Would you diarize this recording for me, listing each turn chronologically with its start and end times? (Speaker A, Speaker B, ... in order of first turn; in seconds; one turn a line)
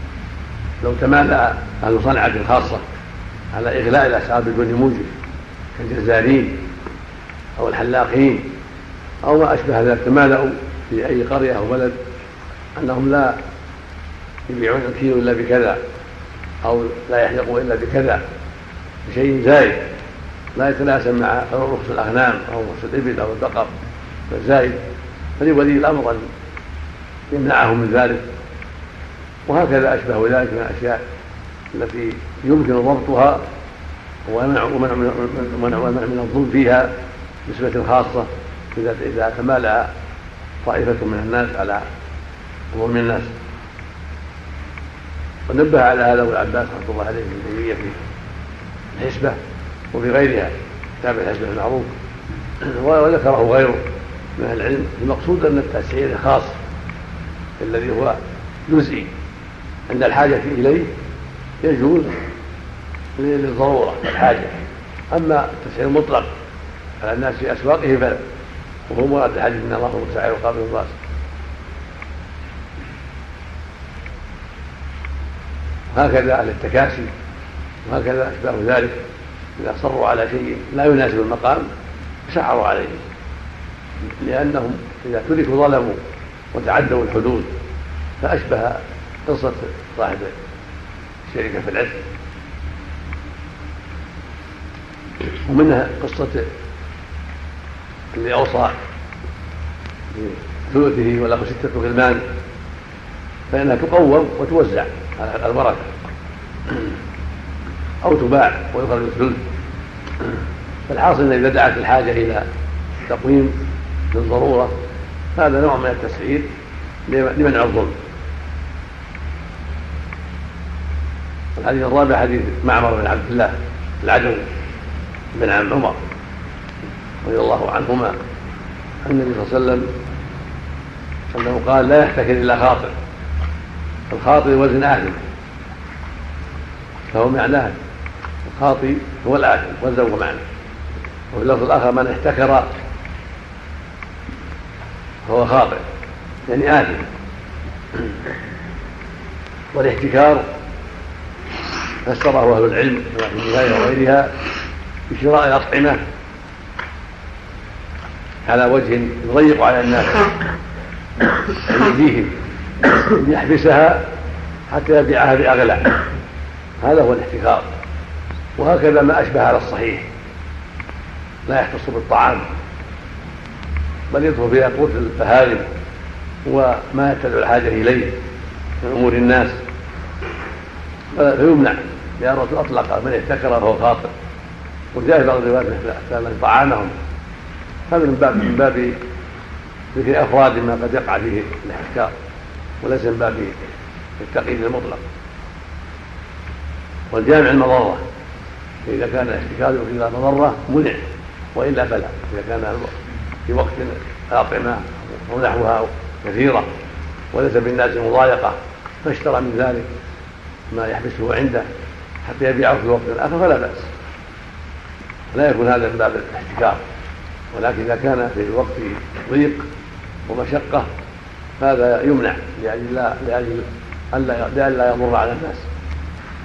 Speaker A: 0.8-2.9
Speaker A: 3.5-5.1
Speaker A: 5.8-6.6
Speaker A: 7.6-8.5
Speaker A: 9.2-11.9
Speaker A: 12.8-13.3
Speaker A: 14.5-15.8
Speaker A: 16.6-18.2
Speaker A: 19.1-19.8
Speaker A: 20.6-23.7
Speaker A: 24.3-24.8
Speaker A: 25.4-26.2
Speaker A: 27.3-28.2
Speaker A: 29.5-31.0
Speaker A: 31.7-33.4
Speaker A: 34.3-36.9
Speaker A: 37.5-39.9
Speaker A: 40.6-41.9
Speaker A: 42.7-43.3
Speaker A: 45.5-48.0
Speaker A: 49.0-49.4
Speaker A: 49.9-51.9
Speaker A: 52.6-53.8
Speaker A: 54.4-56.5
Speaker A: 57.6-59.1
Speaker A: 59.9-60.9
Speaker A: 61.6-62.2
Speaker A: 63.2-64.6
Speaker A: 65.1-66.3
Speaker A: 67.0-68.2
Speaker A: 68.9-71.0
Speaker A: 75.9-77.1
Speaker A: 77.9-79.0
Speaker A: 79.6-81.7
Speaker A: 82.3-83.0
Speaker A: 84.2-86.0
Speaker A: 86.5-87.5
Speaker A: 88.2-90.3
Speaker A: 91.3-92.0
Speaker A: 95.2-96.5
Speaker A: 98.1-98.7
Speaker A: 100.1-102.2
Speaker A: 103.5-105.9
Speaker A: 108.0-109.4
Speaker A: 110.9-112.5
Speaker A: 113.1-113.6
Speaker A: 114.1-114.7
Speaker A: 115.4-116.5
Speaker A: 117.1-117.9
Speaker A: 121.6-124.5
Speaker A: 125.3-126.0
Speaker A: 127.2-128.1
Speaker A: 129.0-129.9
Speaker A: 131.3-132.9
Speaker A: 134.1-135.2
Speaker A: 137.1-137.8
Speaker A: 138.5-140.4
Speaker A: 141.3-142.7
Speaker A: 145.2-145.8
Speaker A: 146.5-147.1
Speaker A: 149.7-150.4
Speaker A: 152.0-154.3
Speaker A: 155.1-156.0
Speaker A: 158.5-160.2
Speaker A: 161.6-162.3
Speaker A: 162.9-164.0
Speaker A: 164.7-165.9
Speaker A: 166.8-167.7
Speaker A: 168.6-170.0
Speaker A: 171.5-172.4
Speaker A: 174.1-175.7
Speaker A: 176.5-178.1
Speaker A: 178.8-179.6
Speaker A: 181.1-184.1
Speaker A: 184.9-186.9
Speaker A: 187.9-188.9
Speaker A: 189.9-192.1
Speaker A: 192.8-193.6
Speaker A: 194.2-195.0
Speaker A: 197.1-198.0
Speaker A: 198.9-201.0
Speaker A: 201.5-206.7
Speaker A: 207.3-209.9
Speaker A: 210.7-211.7
Speaker A: 212.2-213.9
Speaker A: 215.3-216.8
Speaker A: 217.5-219.6
Speaker A: 220.3-220.9
Speaker A: 221.6-225.7